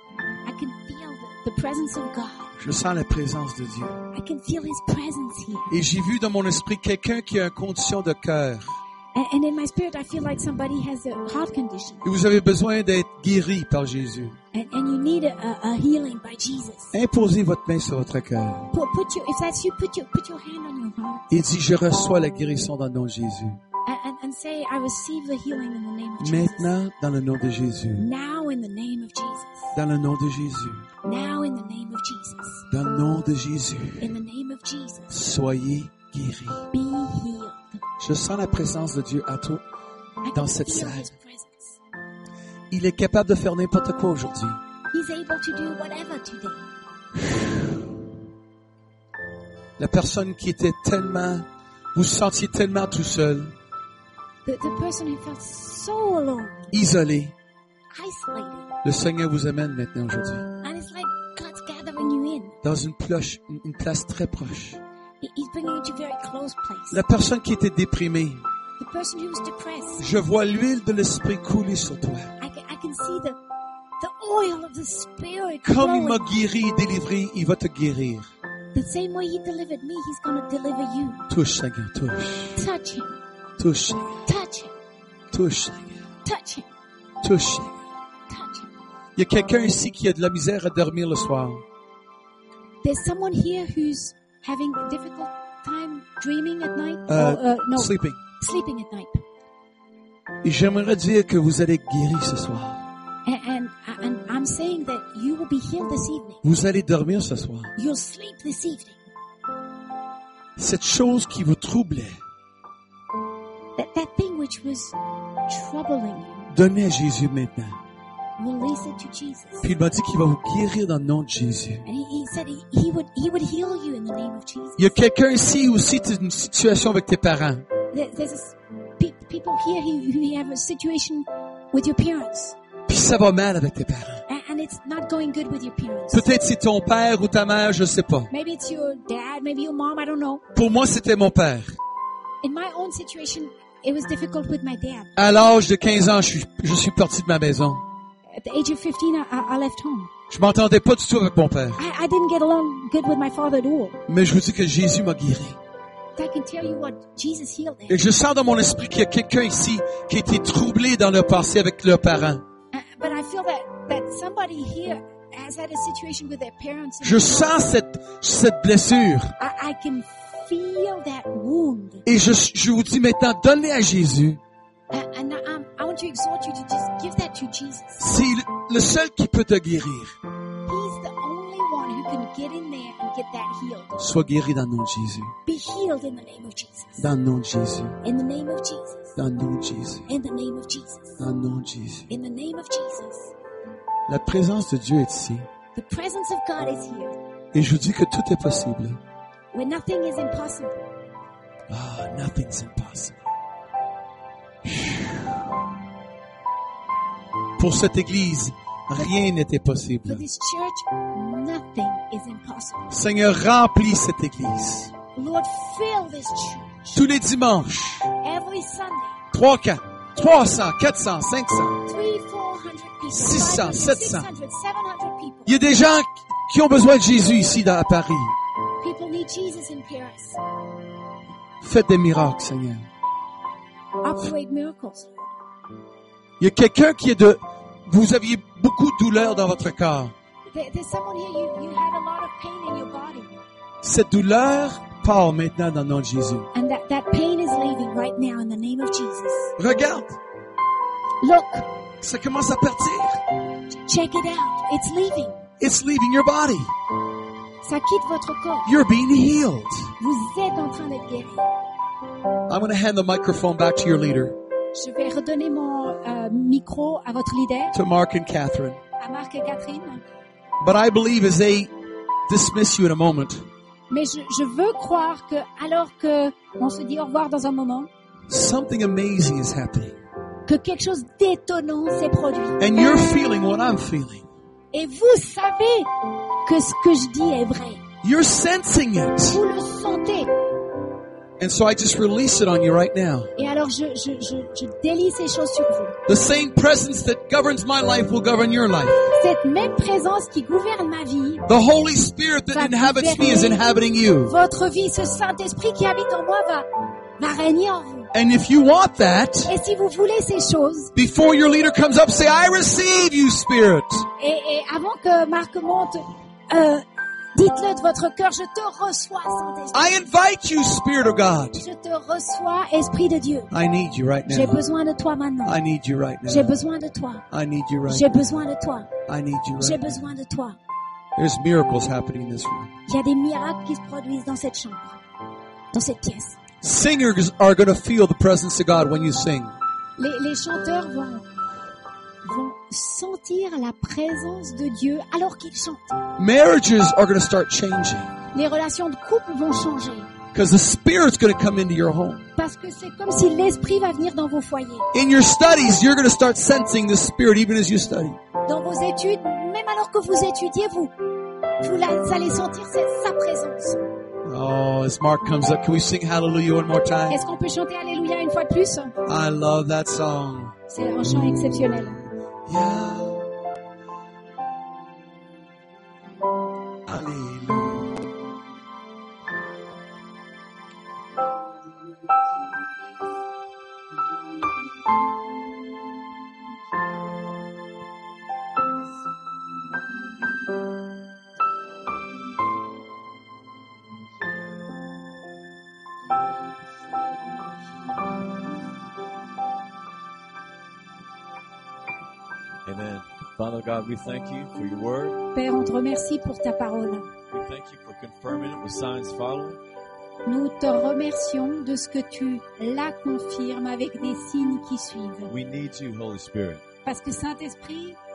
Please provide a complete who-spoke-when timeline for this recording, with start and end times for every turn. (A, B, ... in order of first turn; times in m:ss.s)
0:00.4-0:02.5 A
0:02.6-0:04.0 B
0:04.1-0:05.7 A
0:05.7-0:08.6 B
0:09.1-0:12.1 A
0:12.0-0:14.4 B
0:14.5-0:16.9 A
0:16.9-0:18.7 B
0:18.7-0:21.2 A
0:21.3-0:23.6 B
0:23.9-0:26.7 A
0:26.2-0:28.1 B
0:28.0-0:29.7 A
0:29.7-0:30.9 B
0:31.0-0:32.6 A
0:32.7-0:34.1 B
0:34.0-0:35.1 A
0:35.1-0:36.6 B
0:36.7-0:37.8 A
0:38.0-0:39.6 B
0:40.2-0:41.8 A
0:40.3-0:41.1 B
0:42.7-0:44.6 B
0:44.9-0:46.7 A
0:49.8-0:53.5 B
0:54.5-0:56.7 A
0:56.7-0:57.3 B
0:57.9-0:58.7 A
0:58.8-1:00.5 B
1:00.6-1:02.6 A
1:02.6-1:04.8 B
1:05.2-1:07.0 A
1:06.9-1:08.4 B
1:08.8-1:10.0 A
1:10.0-1:12.4 B
1:12.4-1:13.4 A
1:14.0-1:16.4 A
1:15.6-1:18.3 B
1:18.7-1:21.2 A
1:21.3-1:22.6 B
1:22.6-1:23.2 A
1:23.6-1:24.2 B
1:24.3-1:24.8 A
1:25.3-1:26.0 B
1:26.2-1:26.7 A
1:27.2-1:27.8 B
1:28.3-1:28.7 A
1:29.2-1:31.6 B
1:32.8-1:39.2 A
1:37.1-1:38.2 B
1:40.4-1:42.8 B
1:43.2-1:46.4 A
1:46.4-1:47.7 B
1:47.8-1:49.0 A
1:50.6-1:52.2 B
1:53.8-1:55.0 A
1:55.5-1:56.5 A
1:56.5-1:57.8 B
1:58.4-1:59.7 A
1:59.6-2:01.8 B
2:01.8-2:04.9 A
2:04.8-2:07.6 B
2:07.9-2:12.6 A
2:12.9-2:14.2 B
2:14.3-2:16.2 A
2:16.1-2:18.3 B
2:18.3-2:20.4 A
2:20.6-2:21.7 B
2:22.4-2:25.1 A
2:25.2-2:27.8 B
2:28.4-2:30.1 A
2:30.3-2:31.8 B
2:31.8-2:34.0 A
2:34.1-2:35.6 B
2:36.2-2:38.0 A
2:37.9-2:42.4 B
2:42.7-2:47.6 A
2:47.0-2:49.3 B
2:49.4-2:52.0 A
2:52.1-2:54.4 B
2:54.9-2:58.0 A
2:58.0-3:00.1 B
3:00.7-3:04.0 A
3:04.0-3:05.4 B
3:05.5-3:07.0 A
3:07.0-3:08.0 B
3:08.0-3:09.1 A
3:09.2-3:10.1 B
3:10.1-3:11.2 A
3:11.2-3:12.1 B
3:12.1-3:13.3 A
3:14.1-3:15.5 B
3:15.8-3:17.2 A
3:17.5-3:19.0 B
3:19.5-3:20.9 A
3:21.7-3:23.2 B
3:24.6-3:25.3 B
3:27.6-3:30.2 B
3:30.1-3:32.9 A
3:32.9-3:34.9 B
3:35.2-3:37.0 A
3:36.9-3:38.1 B
3:38.2-3:39.2 A
3:39.3-3:41.8 B
3:41.9-3:45.5 A
3:43.1-3:44.3 B
3:45.5-3:48.4 B
3:48.8-3:50.4 A
3:51.6-3:52.8 B
3:54.0-3:55.3 A
3:56.4-4:00.1 B
4:00.5-4:03.4 A
4:03.8-4:06.5 B
4:06.5-4:09.5 A
4:09.6-4:10.2 B
4:11.2-4:11.7 A
4:12.0-4:13.2 B
4:13.7-4:15.4 A
4:15.6-4:16.7 B
4:17.6-4:18.7 A
4:18.7-4:19.9 B
4:20.0-4:21.5 A
4:22.5-4:24.4 B
4:24.8-4:27.8 A
4:27.7-4:28.8 B
4:29.0-4:30.0 A
4:30.6-4:31.7 B
4:32.3-4:33.4 B
4:33.9-4:37.9 A
4:38.3-4:40.0 B
4:40.5-4:42.8 A
4:42.6-4:44.2 B
4:44.7-4:45.9 A
4:46.4-4:47.8 A
4:48.0-4:49.4 B
4:49.3-4:50.3 A
4:51.4-4:53.3 B
4:53.4-4:56.0 A
4:56.1-4:59.0 B
4:59.2-5:01.5 A
5:01.5-5:04.3 B
5:02.5-5:03.6 A
5:04.3-5:06.7 A
5:07.2-5:08.1 A
5:08.1-5:09.5 B
5:09.5-5:10.9 A
5:11.0-5:14.1 B
5:14.2-5:20.0 A
5:19.7-5:21.6 B
5:21.6-5:23.5 A
5:23.5-5:24.6 B
5:24.3-5:25.6 A
5:25.4-5:26.5 B
5:26.3-5:27.2 A
5:27.3-5:28.2 B
5:27.9-5:28.9 A
5:29.1-5:30.0 B
5:29.6-5:30.6 A
5:31.2-5:32.7 B
5:32.9-5:35.0 A
5:35.7-5:36.4 A
5:36.6-5:39.6 B
5:40.0-5:41.3 A
5:42.2-5:46.0 A
5:46.2-5:48.1 B
5:48.3-5:50.1 A
5:50.3-5:52.2 B
5:52.4-5:54.9 A
5:54.9-5:58.2 B
5:58.5-6:00.9 A
6:01.6-6:03.9 A
6:04.2-6:07.2 B
6:07.1-6:09.0 A
6:09.0-6:10.6 B
6:10.7-6:12.0 A
6:11.1-6:11.8 B
6:12.5-6:13.2 B
6:16.9-6:18.0 B
6:42.7-6:45.2 C
6:45.3-6:47.1 A
6:47.3-6:49.6 C
6:50.2-6:55.3 A
6:55.3-6:56.6 C
6:56.8-6:58.0 A